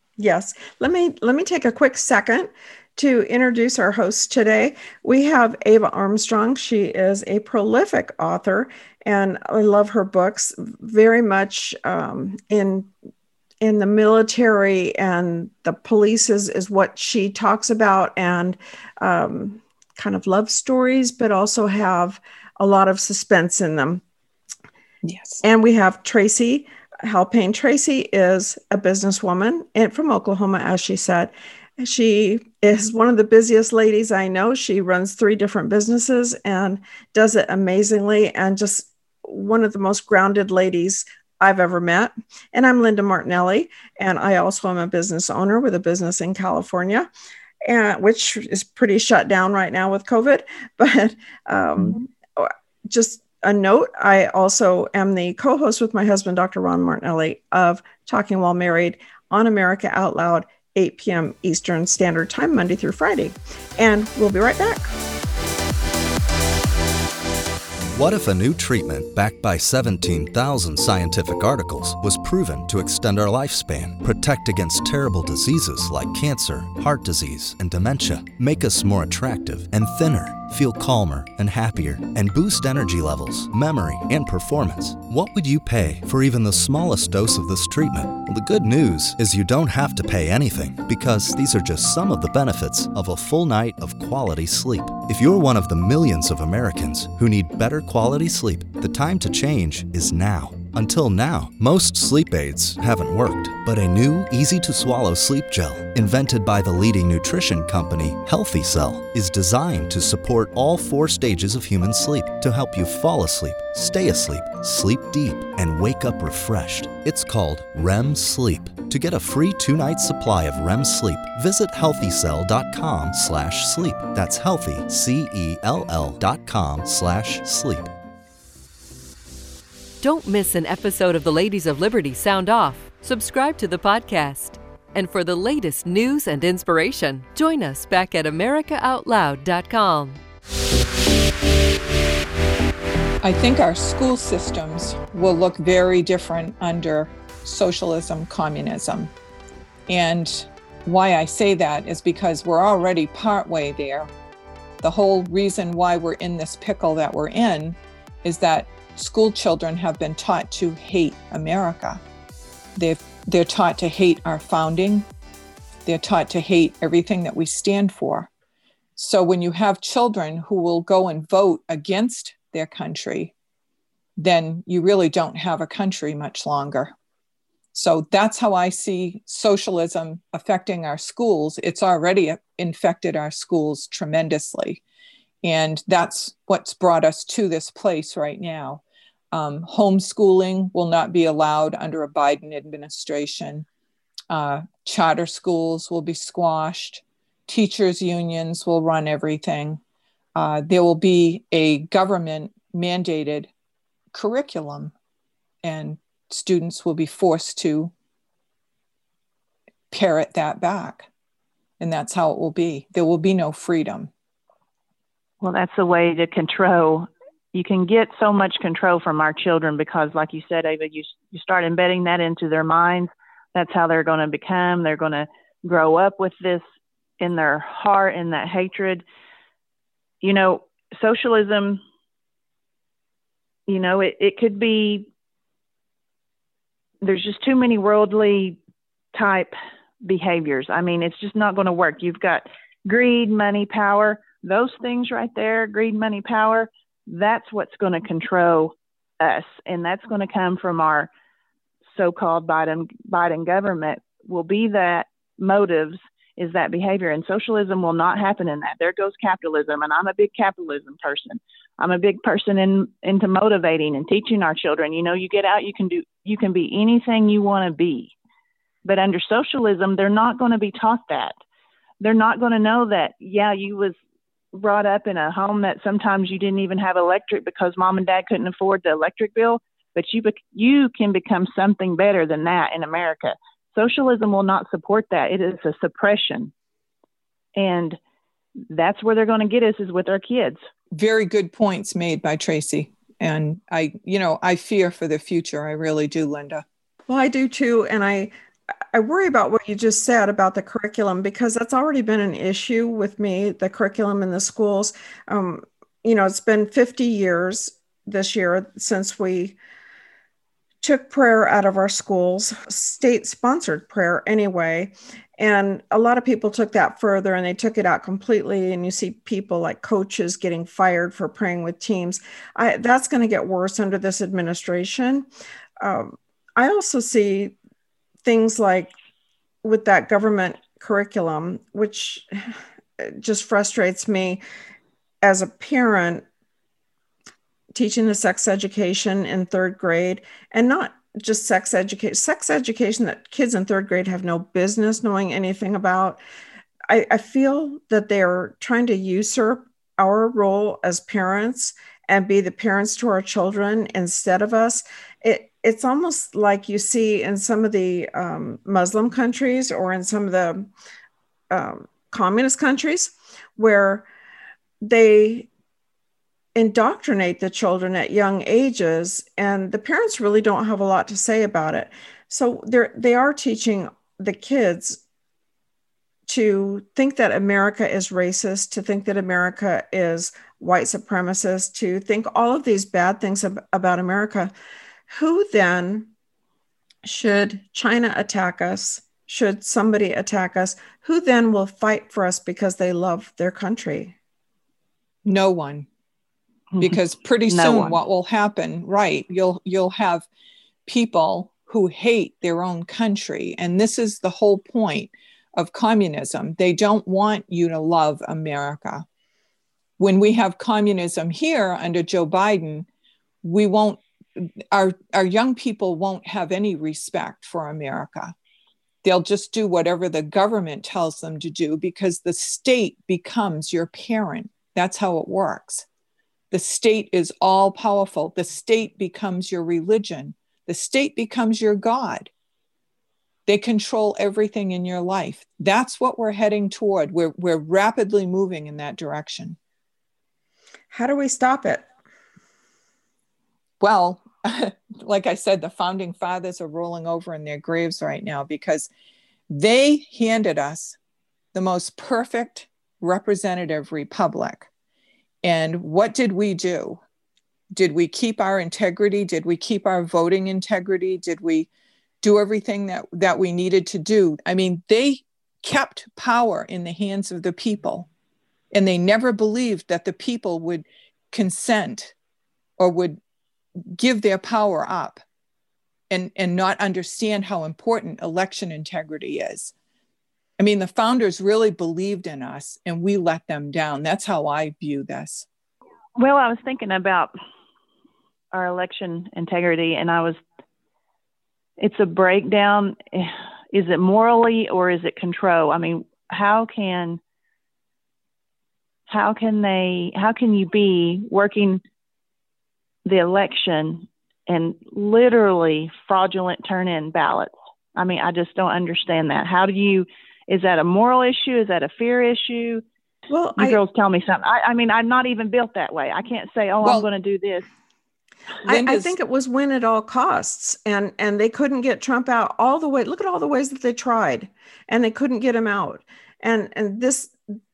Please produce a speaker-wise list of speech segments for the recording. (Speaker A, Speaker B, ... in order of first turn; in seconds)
Speaker A: 0.2-12.9, 13.6-24.0, 25.4-47.1, 47.6-64.9, 297.1-298.3, 298.9-309.6, 310.8-325.3, 325.8-327.5, 328.2-328.9, 329.6-334.4, 335.2-336.2, 337.7-346.2, 346.9-360.7, 361.5-364.1, 364.8-365.5, 366.5-375.0, 376.3-384.5, 385.1-386.1, 387.0-394.1, 440.9-441.9, 513.3-513.8, 518.6-527.4
Speaker B: 25.0-25.4, 143.2-149.1, 149.9-154.1, 154.8-162.0, 162.7-165.1, 165.8-168.3, 168.9-173.3, 174.2-176.9, 177.7-184.8, 185.4-193.7, 194.3-199.8, 200.3-203.5, 204.1-204.9, 205.6-207.9, 209.9-211.1, 211.8-214.1, 290.9-296.6, 395.2-395.9, 396.8-400.3, 400.9-409.0, 410.0-412.9, 413.4-418.3, 419.0-425.9, 426.5-432.3, 433.4-439.6, 443.8-448.9, 449.5-451.0, 451.5-454.7, 455.4-457.0, 457.7-461.7, 462.2-468.1, 468.7-472.1, 472.8-473.2, 473.9-475.2, 476.1-479.7, 480.6-485.4, 516.8-517.1, 518.6-519.2
Speaker C: 67.9-127.9
Speaker D: 130.0-140.2
Speaker E: 215.4-226.6, 227.2-229.0, 230.2-231.8, 233.7-235.1, 237.0-238.6, 239.1-251.1, 251.9-268.1, 268.8-271.3, 272.0-273.9, 274.5-286.5, 287.6-288.0, 288.7-290.6, 396.7-398.0, 486.2-487.3, 488.5-490.4, 491.8-497.2, 499.1-501.8, 503.0-512.8, 513.6-517.6